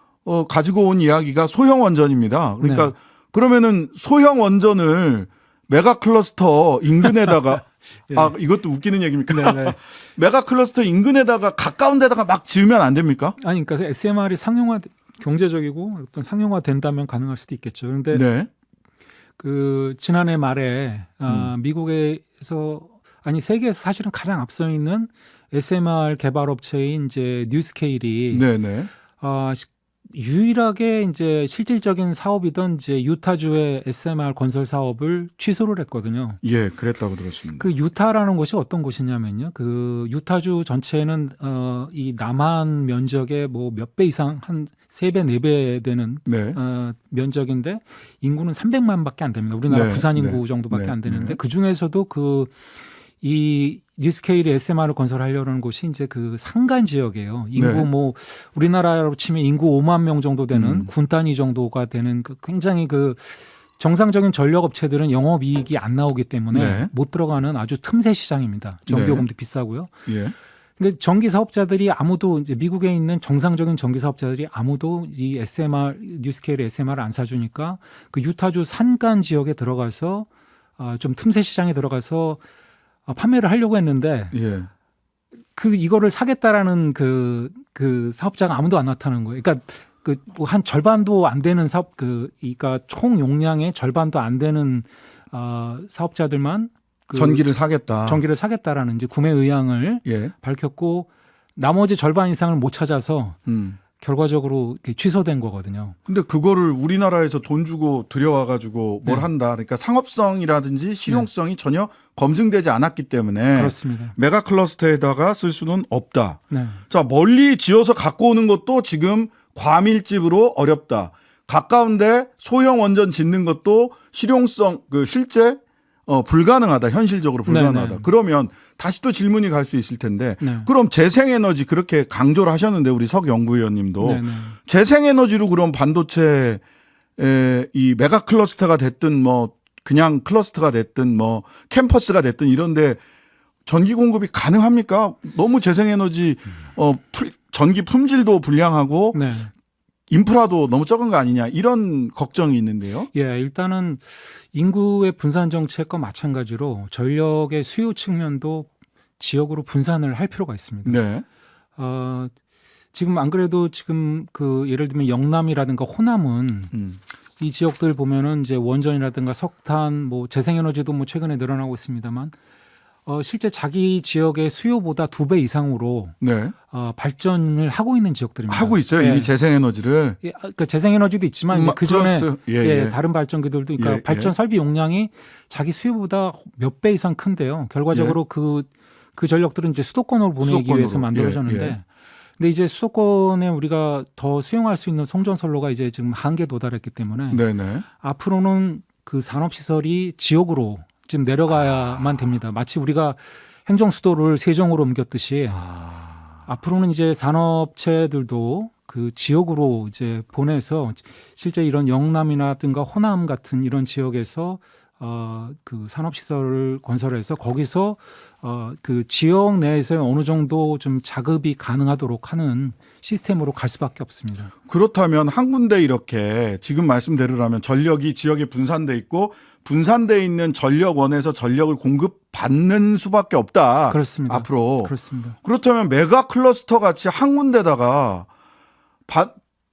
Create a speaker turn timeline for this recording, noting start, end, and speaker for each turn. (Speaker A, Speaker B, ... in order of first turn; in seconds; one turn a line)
Speaker A: 0.2-13.4
Speaker B: 2.6-2.9
Speaker B: 8.1-8.3
Speaker B: 9.3-9.8
Speaker B: 13.4-18.2
Speaker A: 18.1-18.5
Speaker B: 19.4-28.5
Speaker A: 28.3-28.9
Speaker B: 29.2-36.4
Speaker A: 36.4-37.7
Speaker B: 37.6-52.5
Speaker A: 46.3-46.6
Speaker A: 49.7-51.4
Speaker B: 53.2-69.9
Speaker A: 57.6-57.9
Speaker A: 60.5-60.9
Speaker A: 66.5-66.9
Speaker A: 68.9-69.3
Speaker A: 70.1-70.3
Speaker B: 70.8-80.3
Speaker B: 80.8-82.4
Speaker B: 83.1-84.3
Speaker A: 84.3-84.7
Speaker B: 85.5-97.5
Speaker A: 97.1-98.2
Speaker B: 98.0-103.4
Speaker A: 100.1-100.3
Speaker A: 103.5-103.8
Speaker B: 104.0-106.0
Speaker A: 106.1-136.6
Speaker B: 113.5-114.2
Speaker B: 116.5-116.8
Speaker B: 127.5-128.1
Speaker B: 130.4-130.7
Speaker B: 134.0-134.6
Speaker A: 137.2-143.0
Speaker A: 143.7-149.2
Speaker B: 149.1-149.5
Speaker A: 150.1-153.1
Speaker B: 153.1-161.0
Speaker A: 160.8-161.2
Speaker B: 161.8-162.3
Speaker B: 162.9-166.7
Speaker A: 166.7-167.0
Speaker B: 167.4-172.3
Speaker B: 173.1-176.2
Speaker A: 176.2-176.6
Speaker B: 176.7-179.3
Speaker A: 178.5-180.2
Speaker B: 180.2-191.8
Speaker A: 181.5-183.0
Speaker A: 183.8-184.3
Speaker A: 190.4-191.8
Speaker B: 192.4-197.4
Speaker A: 197.3-197.8
Speaker B: 198.0-205.7
Speaker A: 205.6-206.4
Speaker B: 206.5-224.5
Speaker A: 224.7-238.3
Speaker B: 233.9-235.4
Speaker A: 239.1-239.3